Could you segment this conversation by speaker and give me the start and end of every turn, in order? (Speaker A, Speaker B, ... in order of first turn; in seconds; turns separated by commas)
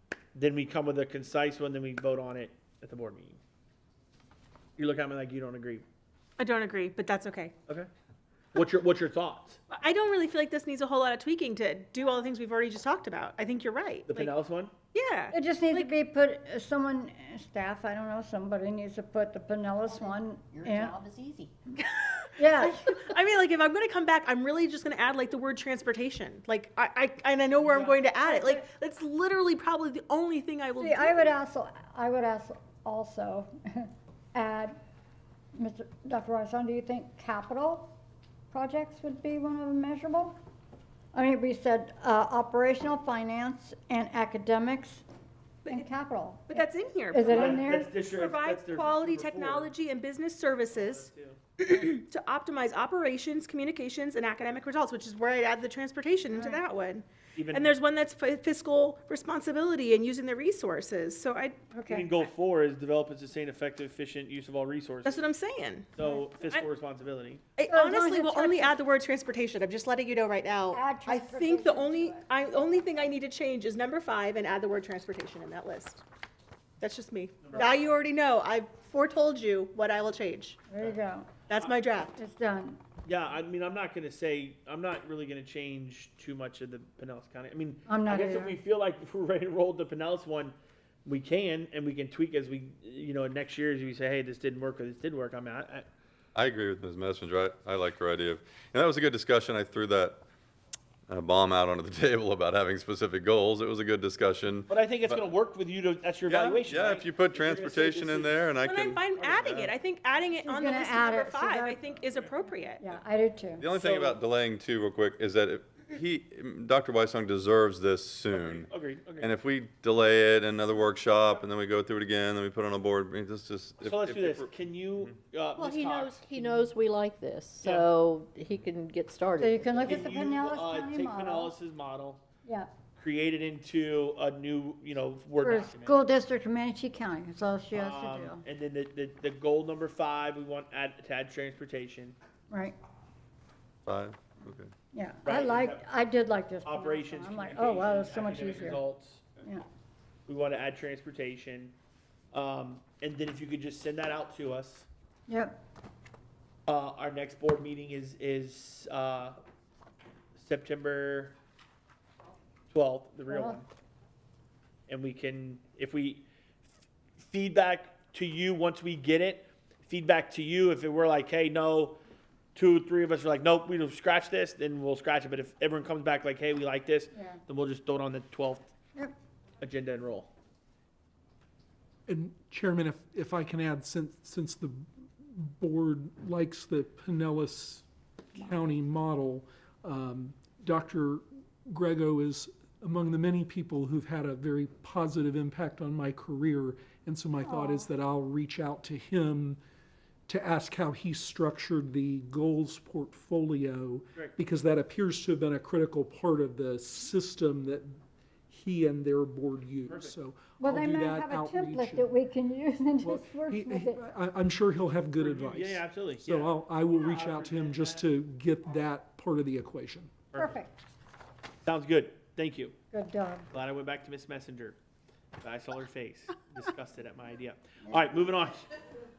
Speaker A: 0.3-3.4, Speaker A: 4.8-5.8, Speaker B: 6.4-7.5, Speaker A: 8.5-9.6, Speaker B: 9.7-14.3, Speaker A: 14.1-14.7, Speaker B: 14.9-15.9, Speaker C: 15.3-21.0, Speaker D: 20.6-21.5, Speaker B: 21.8-31.3, Speaker C: 22.4-22.8, Speaker C: 27.6-28.7, Speaker C: 30.8-34.8, Speaker C: 35.5-37.9, Speaker C: 38.5-40.3, Speaker C: 41.1-45.0, Speaker C: 45.7-47.9, Speaker B: 46.5-51.1, Speaker A: 47.3-49.7, Speaker A: 50.7-51.4, Speaker B: 51.6-61.7, Speaker C: 56.3-56.6, Speaker A: 57.3-57.7, Speaker C: 61.7-62.1, Speaker A: 61.9-65.2, Speaker B: 65.0-66.6, Speaker A: 65.9-67.4, Speaker B: 67.6-76.0, Speaker C: 67.7-68.7, Speaker C: 70.7-72.9, Speaker B: 76.8-80.6, Speaker A: 77.4-77.7, Speaker C: 80.7-81.3, Speaker B: 81.5-82.2, Speaker C: 82.2-82.8, Speaker A: 83.0-95.8, Speaker C: 87.9-88.6, Speaker E: 96.3-100.2, Speaker E: 101.1-105.2, Speaker A: 104.7-108.5, Speaker E: 106.3-109.0, Speaker B: 108.6-112.8, Speaker A: 109.1-109.7, Speaker C: 110.4-111.8, Speaker C: 112.8-113.7, Speaker E: 113.6-124.5, Speaker A: 113.8-114.2, Speaker A: 118.3-119.3, Speaker A: 123.8-126.7, Speaker D: 125.6-130.1, Speaker A: 127.6-127.9, Speaker C: 129.4-131.5, Speaker A: 129.8-132.2, Speaker C: 132.4-132.7, Speaker A: 132.9-135.9, Speaker C: 135.4-138.4, Speaker A: 137.7-142.2, Speaker C: 142.5-142.8, Speaker E: 143.8-144.7, Speaker C: 144.9-148.8, Speaker A: 145.2-145.8, Speaker A: 146.6-149.4, Speaker A: 150.3-151.7, Speaker A: 152.3-154.9, Speaker C: 155.3-155.6, Speaker A: 156.7-159.4, Speaker A: 160.3-161.3, Speaker A: 162.7-163.6, Speaker C: 163.3-163.6, Speaker A: 164.9-166.2, Speaker A: 167.2-171.9, Speaker A: 172.5-178.7, Speaker C: 177.1-177.4, Speaker A: 179.6-180.3, Speaker F: 182.1-199.6, Speaker C: 197.4-197.9, Speaker F: 200.3-208.0, Speaker F: 208.5-212.1, Speaker A: 209.9-210.1, Speaker C: 210.6-214.0, Speaker F: 213.0-220.1, Speaker A: 215.2-218.1, Speaker A: 220.3-220.6, Speaker C: 220.3-220.8, Speaker A: 221.6-222.7, Speaker C: 222.9-223.5, Speaker A: 223.5-224.8, Speaker A: 225.4-228.7